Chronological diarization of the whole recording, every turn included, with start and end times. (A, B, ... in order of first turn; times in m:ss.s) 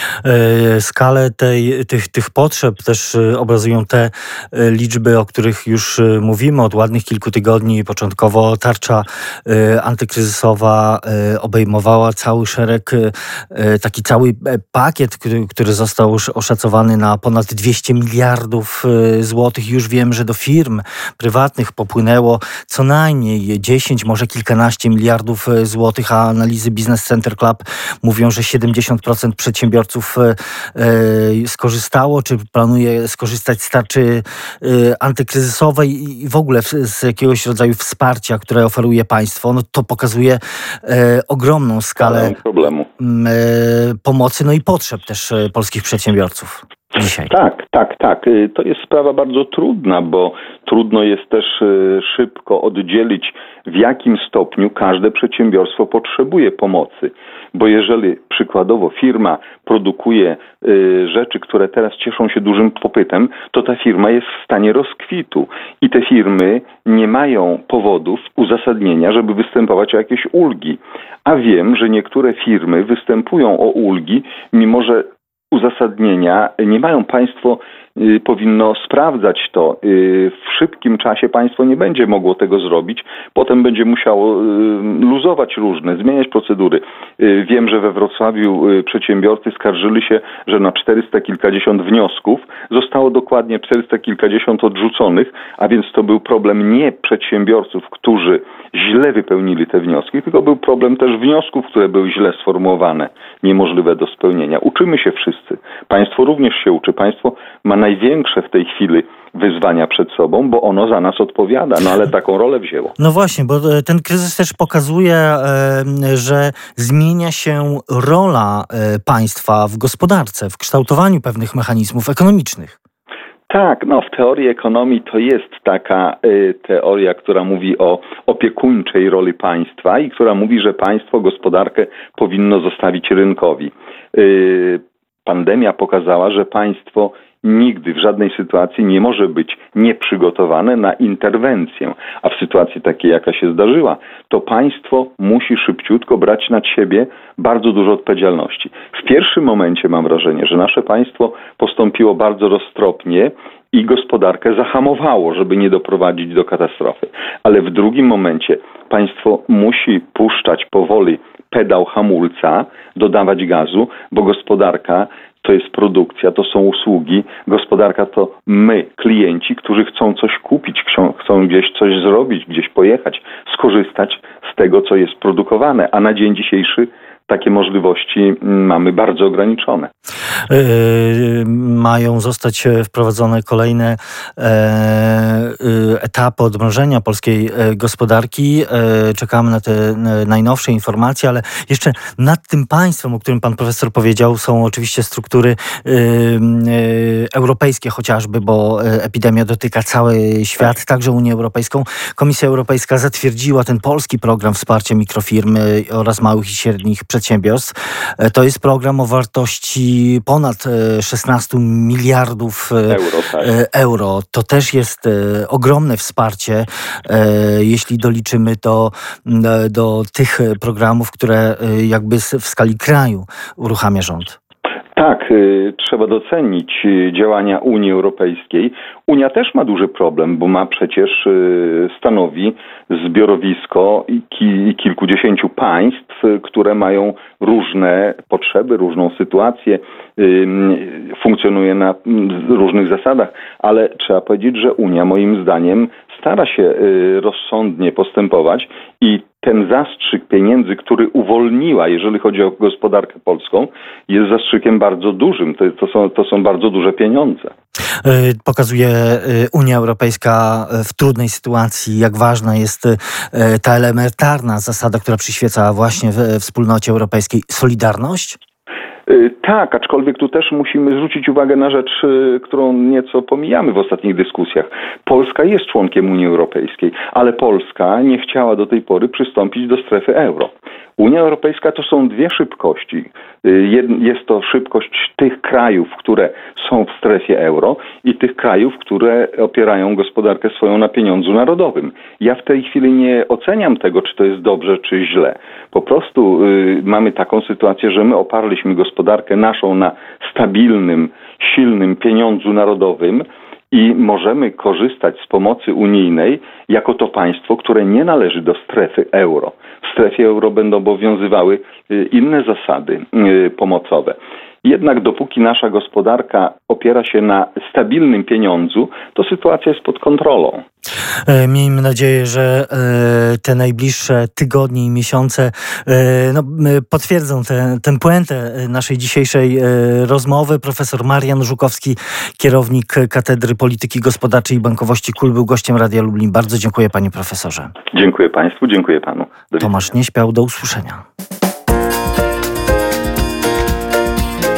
0:00.2-0:42.4 A
0:42.0-0:42.9 B
0:43.0-0:47.3 A
0:47.3-1:53.0 B
1:53.0-2:02.8 A
2:03.5-2:59.9 B
3:00.5-3:44.4 A
3:32.9-3:33.5 B
3:45.0-4:17.5 B
4:18.0-4:28.4 A
4:29.0-5:20.6 B
5:21.2-5:37.7 A
5:37.9-5:39.9 B
5:39.6-5:41.0 A